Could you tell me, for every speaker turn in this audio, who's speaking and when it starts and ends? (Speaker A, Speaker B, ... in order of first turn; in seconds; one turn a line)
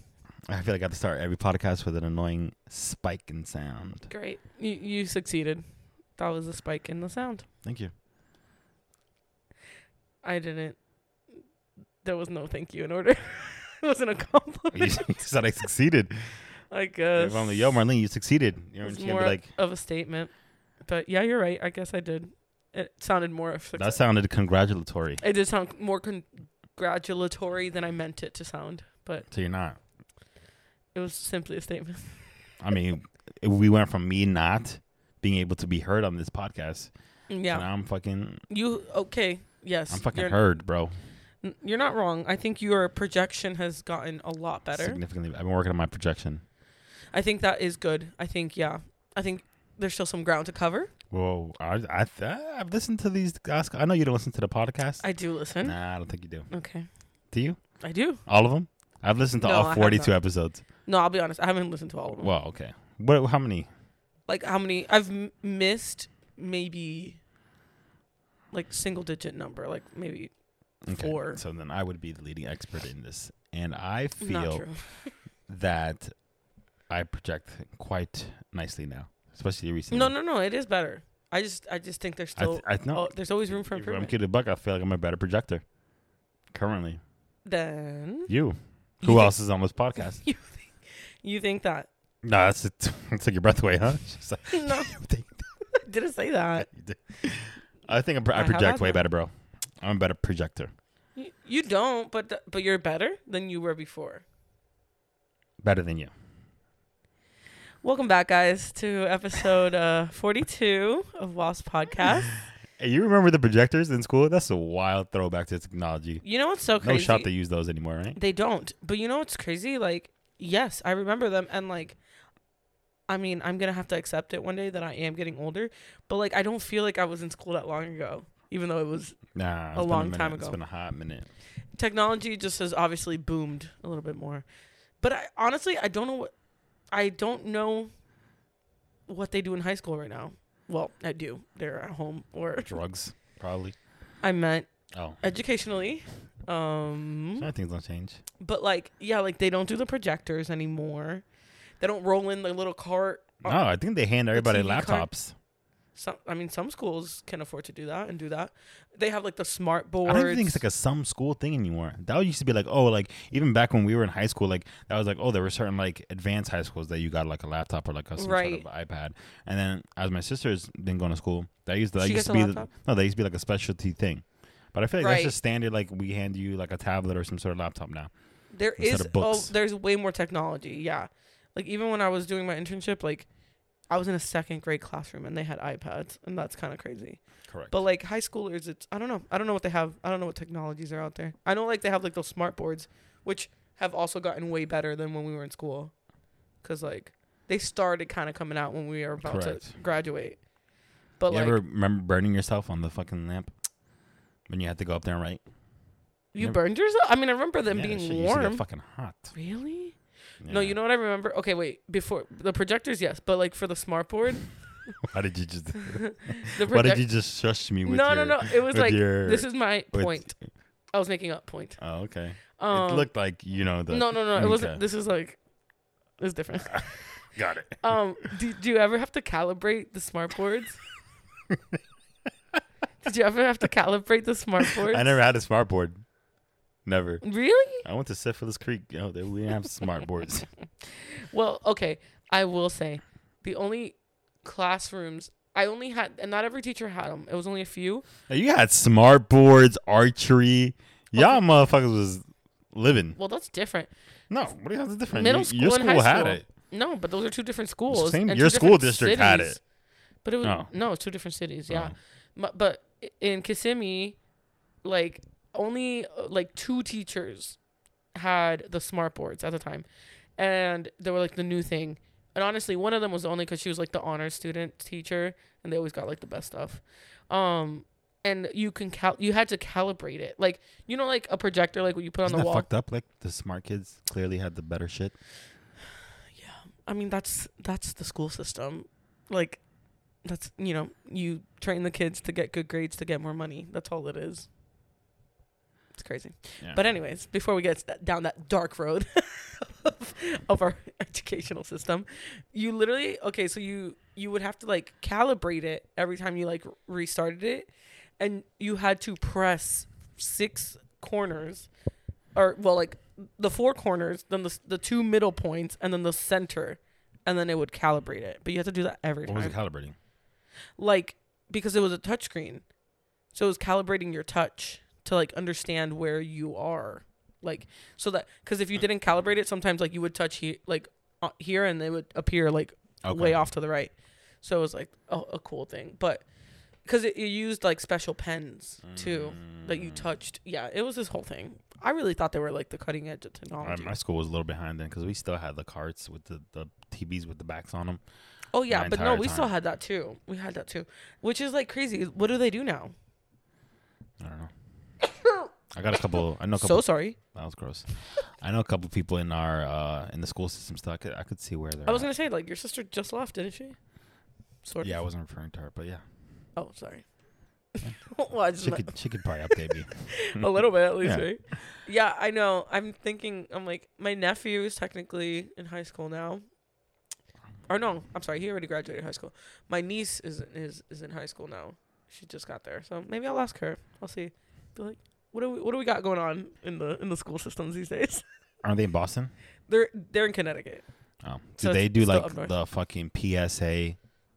Speaker A: 0.5-4.1
Speaker B: 4.1-5.6
Speaker B: 6.2-7.5
Speaker A: 7.6-7.9
Speaker B: 10.2-10.8
Speaker B: 12.0-15.1
Speaker A: 14.7-16.1
Speaker B: 16.7-17.6
Speaker A: 17.1-19.4
Speaker B: 18.8-20.3
Speaker B: 20.9-24.0
Speaker A: 23.8-25.2
Speaker B: 25.2-29.2
Speaker A: 29.3-29.8
Speaker B: 30.9-32.2
Speaker A: 32.6-36.9
Speaker B: 37.3-37.7
Speaker A: 37.5-38.4
Speaker B: 38.5-40.4
Speaker A: 39.9-40.9
Speaker B: 41.4-45.0
Speaker A: 44.7-46.4
Speaker B: 47.1-50.9
Speaker A: 51.1-55.0
Speaker B: 55.0-55.8
Speaker A: 55.6-56.5
Speaker B: 56.5-56.9
Speaker A: 57.3-57.6
Speaker B: 57.8-58.2
Speaker A: 58.2-60.6
Speaker B: 59.4-60.2
Speaker B: 60.9-62.3
Speaker A: 62.2-63.7
Speaker B: 64.3-67.2
Speaker B: 68.5-70.3
Speaker A: 70.9-74.6
Speaker B: 70.9-71.4
Speaker B: 74.2-75.1
Speaker A: 75.5-76.1
Speaker A: 76.9-80.1
Speaker B: 79.9-84.1
Speaker A: 82.4-85.6
Speaker A: 86.5-87.0
Speaker B: 87.5-88.3
Speaker A: 88.3-90.2
Speaker B: 89.0-89.3
Speaker B: 90.0-90.7
Speaker B: 91.2-91.9
Speaker A: 92.2-95.4
Speaker B: 94.5-94.9
Speaker B: 95.7-96.7
Speaker A: 96.7-99.3
Speaker B: 98.3-99.0
Speaker A: 99.8-100.7
Speaker B: 101.2-104.2
Speaker A: 105.6-106.1
Speaker B: 107.8-112.3
Speaker A: 112.8-116.2
Speaker B: 116.2-117.3
Speaker A: 116.8-118.2
Speaker B: 118.2-122.0
Speaker B: 123.1-129.2
Speaker A: 129.3-131.3
Speaker B: 129.7-130.6
Speaker B: 131.8-134.4
Speaker B: 135.0-136.3
Speaker B: 136.9-137.9
Speaker B: 139.1-142.8
Speaker A: 142.6-143.7
Speaker B: 144.2-144.7
Speaker A: 144.9-145.2
Speaker B: 145.2-147.5
Speaker A: 147.4-148.2
Speaker B: 148.4-151.2
Speaker B: 151.8-153.6
Speaker A: 153.4-155.3
Speaker B: 154.3-155.1
Speaker B: 155.9-160.6
Speaker A: 160.1-178.1
Speaker B: 168.2-168.6
Speaker B: 172.0-172.7
Speaker B: 175.0-175.3
Speaker B: 178.5-183.3
Speaker A: 178.8-179.5
Speaker B: 183.9-195.9
Speaker A: 187.5-187.7
Speaker B: 196.6-200.4
Speaker A: 199.2-199.7
Speaker B: 201.2-201.6
Speaker A: 201.3-203.5
Speaker A: 204.5-205.4
Speaker B: 206.3-208.6
Speaker A: 207.7-209.3
Speaker B: 209.3-209.9
Speaker A: 210.4-210.8
Speaker B: 210.5-214.5
Speaker A: 215.0-220.3
Speaker B: 215.8-217.0
Speaker B: 217.8-220.3
Speaker B: 220.9-221.8
Speaker A: 221.8-224.8
Speaker B: 222.6-223.1
Speaker B: 223.9-225.4
Speaker B: 226.2-227.1
Speaker A: 226.7-228.2
Speaker B: 227.8-230.8
Speaker A: 231.5-231.8
Speaker B: 233.0-235.2
Speaker A: 234.6-236.0
Speaker A: 236.8-237.2
Speaker B: 237.2-237.8
Speaker A: 237.8-240.5
Speaker B: 240.9-248.0
Speaker A: 248.3-253.2
Speaker B: 251.1-251.4
Speaker B: 253.2-253.9
Speaker A: 254.3-256.4
Speaker B: 255.1-259.6
Speaker A: 257.9-259.6
Speaker B: 260.2-264.2
Speaker A: 260.4-260.7
Speaker A: 261.7-261.9
Speaker B: 264.8-267.6
Speaker B: 268.1-269.9
Speaker B: 270.4-282.7
Speaker A: 282.2-285.1
Speaker B: 286.4-289.6
Speaker B: 290.2-294.5
Speaker B: 295.9-311.7
Speaker B: 312.4-319.6
Speaker A: 319.2-319.9
Speaker B: 320.8-322.6
Speaker B: 323.3-336.2
Speaker A: 333.0-333.4
Speaker B: 336.9-343.9
Speaker A: 338.8-340.0
Speaker A: 343.6-348.0
Speaker B: 348.5-352.9
Speaker A: 348.7-349.5
Speaker A: 354.2-354.5
Speaker B: 355.0-355.5
Speaker A: 355.7-357.9
Speaker B: 356.6-357.2
Speaker A: 358.4-362.1
Speaker B: 361.9-363.8
Speaker B: 364.6-364.9
Speaker A: 364.8-366.0
Speaker B: 366.6-367.1
Speaker B: 367.8-368.9
Speaker A: 368.6-371.3
Speaker B: 369.5-376.4
Speaker B: 377.7-388.2
Speaker A: 388.6-389.3
Speaker B: 389.7-390.8
Speaker A: 391.2-394.0
Speaker B: 391.6-392.5